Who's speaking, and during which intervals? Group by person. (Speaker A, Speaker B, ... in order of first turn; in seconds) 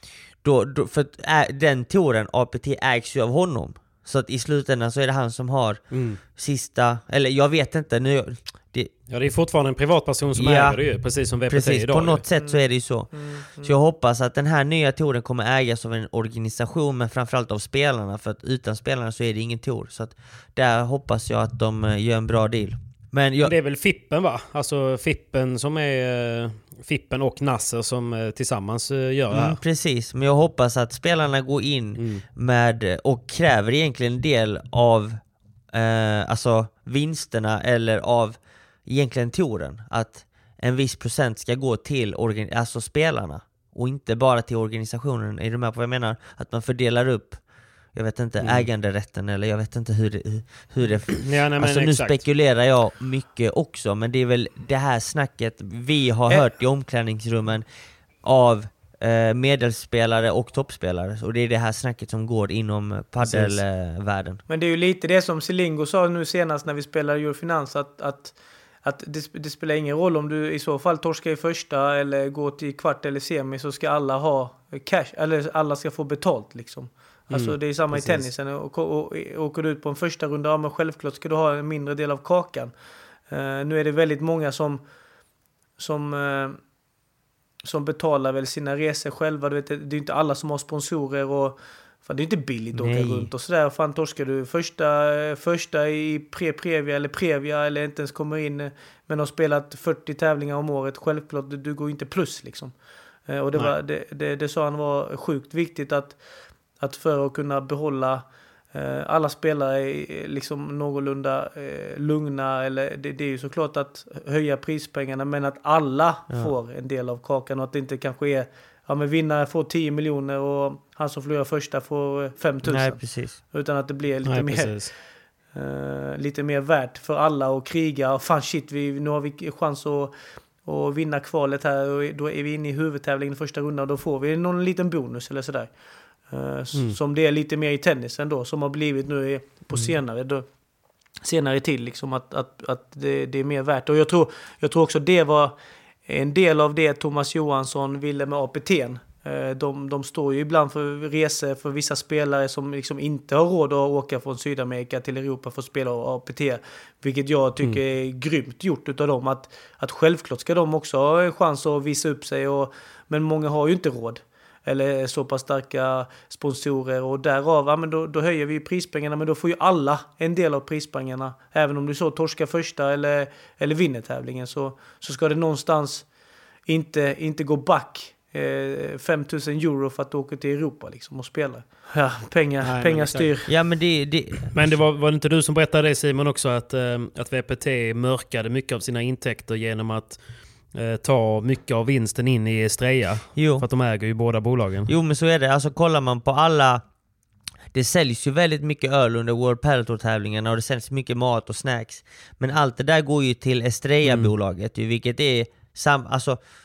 Speaker A: 0.4-8.9, 10.3-10.8, 11.5-23.5, 29.3-47.4, 47.9-57.7, 58.2-64.4, 92.8-93.3, 122.7-123.4, 183.5-184.5, 193.4-193.7, 194.9-196.8, 197.7-206.4
Speaker B: 5.9-6.2, 9.1-12.2, 23.4-29.6, 32.0-32.2, 48.4-48.7, 51.2-52.2, 63.2-63.6, 77.3-78.3, 124.2-124.9, 182.6-183.3, 184.5-190.2, 190.7-194.9, 204.1-204.3
Speaker C: 12.4-13.7, 64.5-82.7, 83.3-84.8, 85.8-86.6, 87.6-106.2, 106.8-125.0, 125.5-140.5, 141.2-145.6, 146.1-176.1, 176.7-183.5